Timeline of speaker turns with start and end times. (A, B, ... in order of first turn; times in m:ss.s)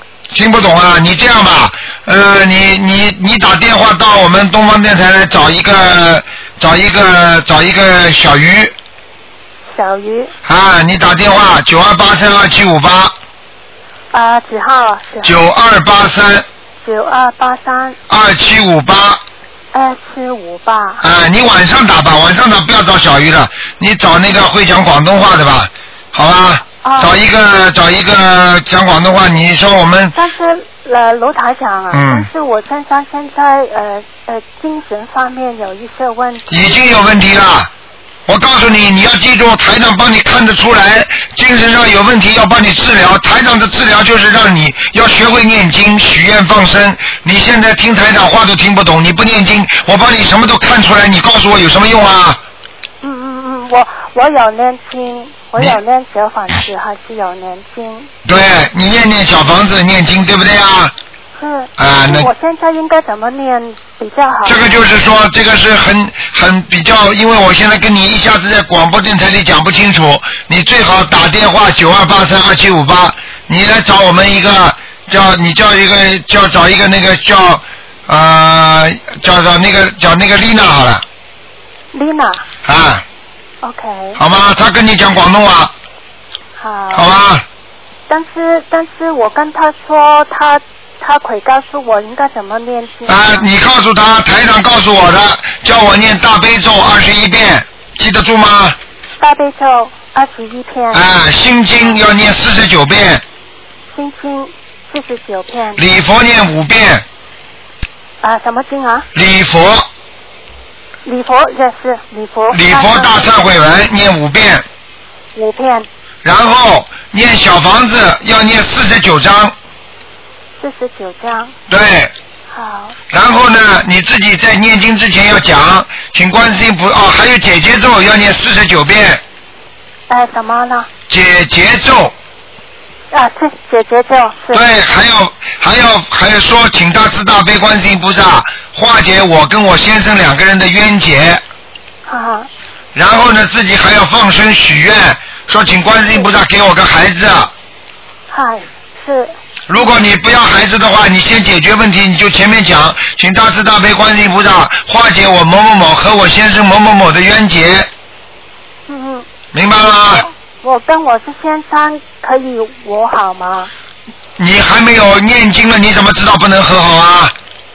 0:00.3-0:08.7 A
0:09.7-0:10.3 B
0:10.4-0:13.1 A
0:14.1-0:15.4 B
0:15.2-0:16.4 A
0:16.8-0:18.0 B
0:18.1-0:19.2 A
0:19.7-0:21.0 B
0:21.0-0:30.1 A
0:26.8-0:27.2 B
0:30.1-0:36.9 B
0:31.9-0:32.3 A
0:36.5-0:37.7 A
0:38.3-0:52.4 A
0:53.0-0:58.1 B
0:58.2-1:00.9 A
1:01.4-1:04.8 B
1:01.8-1:02.3 A
1:04.4-1:21.0 A
1:21.9-1:22.4 B
1:22.6-1:23.0 A
1:23.6-1:24.2 B
1:24.2-1:25.7 A
1:26.6-1:27.2 B
1:26.9-1:27.4 A
1:28.1-1:33.4 B
1:33.1-1:38.8 A
1:39.2-1:41.0 B
1:40.9-1:43.2 A
1:43.9-1:45.8 B
1:45.8-1:47.0 A
1:48.2-1:49.1 B
1:49.1-1:49.9 A
1:51.0-1:53.3 B
1:52.5-1:54.6 A
1:55.3-1:55.9 B
1:56.2-1:59.5 A
2:00.6-2:01.5 B
2:01.7-2:02.1 A
2:02.5-2:03.0 B
2:03.1-2:09.2 A
2:10.1-2:10.9 B
2:11.1-2:12.1 A
2:13.1-2:14.6 B
2:14.5-2:21.4 A
2:22.1-2:22.5 B
2:22.9-2:27.5 A
2:28.3-2:29.3 B
2:29.7-2:37.9 A
2:38.9-2:39.2 B
2:39.5-2:40.3 A
2:40.1-2:43.7 B
2:44.4-2:47.3 A